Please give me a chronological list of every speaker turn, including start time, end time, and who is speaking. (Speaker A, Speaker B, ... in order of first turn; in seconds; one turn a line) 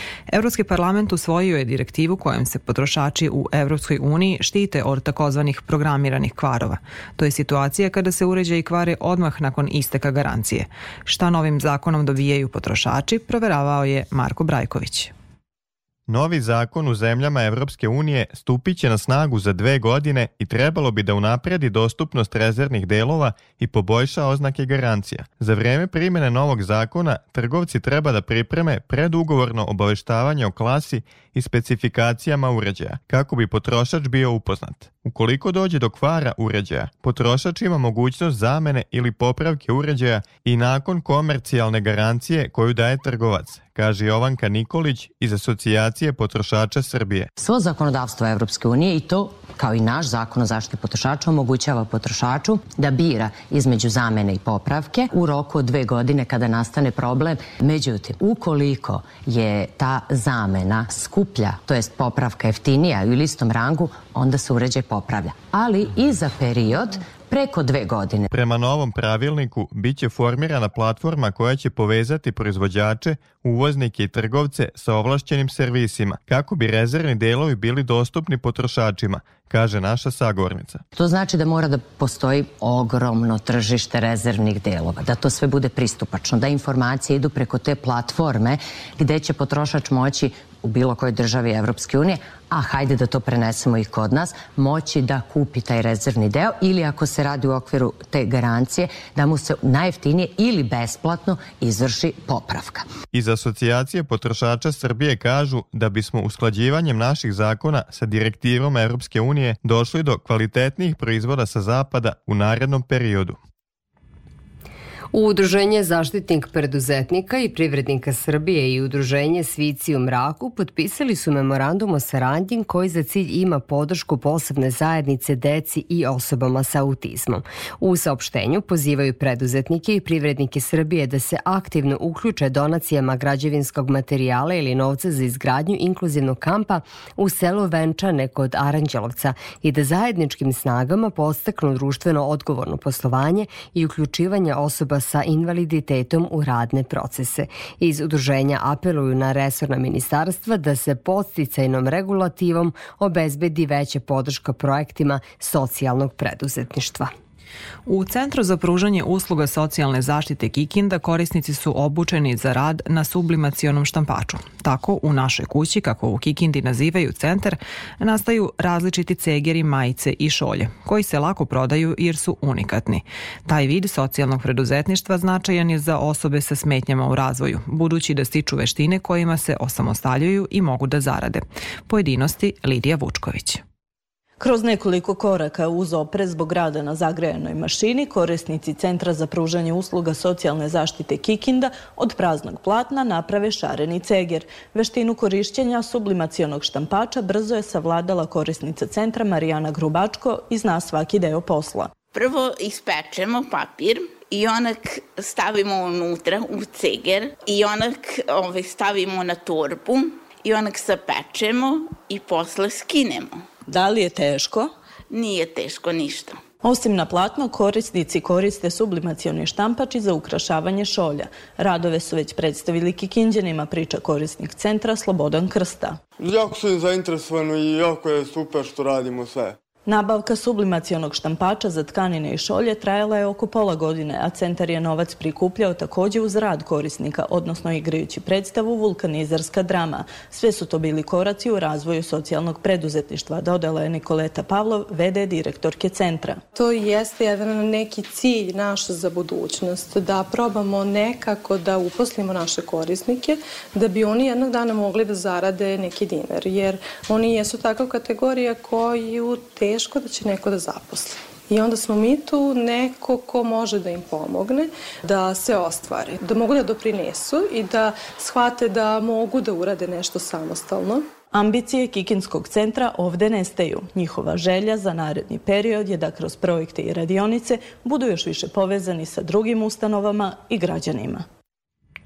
Speaker A: 0.3-15.1
Speaker B: 16.1-47.3
Speaker C: 47.4-68.3
Speaker B: 68.5-80.8
Speaker C: 80.9-102.9
Speaker B: 103.1-113.4
Speaker D: 115.1-157.1
Speaker A: 157.9-183.6
Speaker E: 184.4-201.9
Speaker F: 202.1-213.4
Speaker E: 213.7-214.7
Speaker F: 215.1-216.4
Speaker E: 216.6-226.0
Speaker G: 226.2-229.6
Speaker E: 229.9-246.4
Speaker H: 246.5-271.1
Speaker E: 271.3-281.2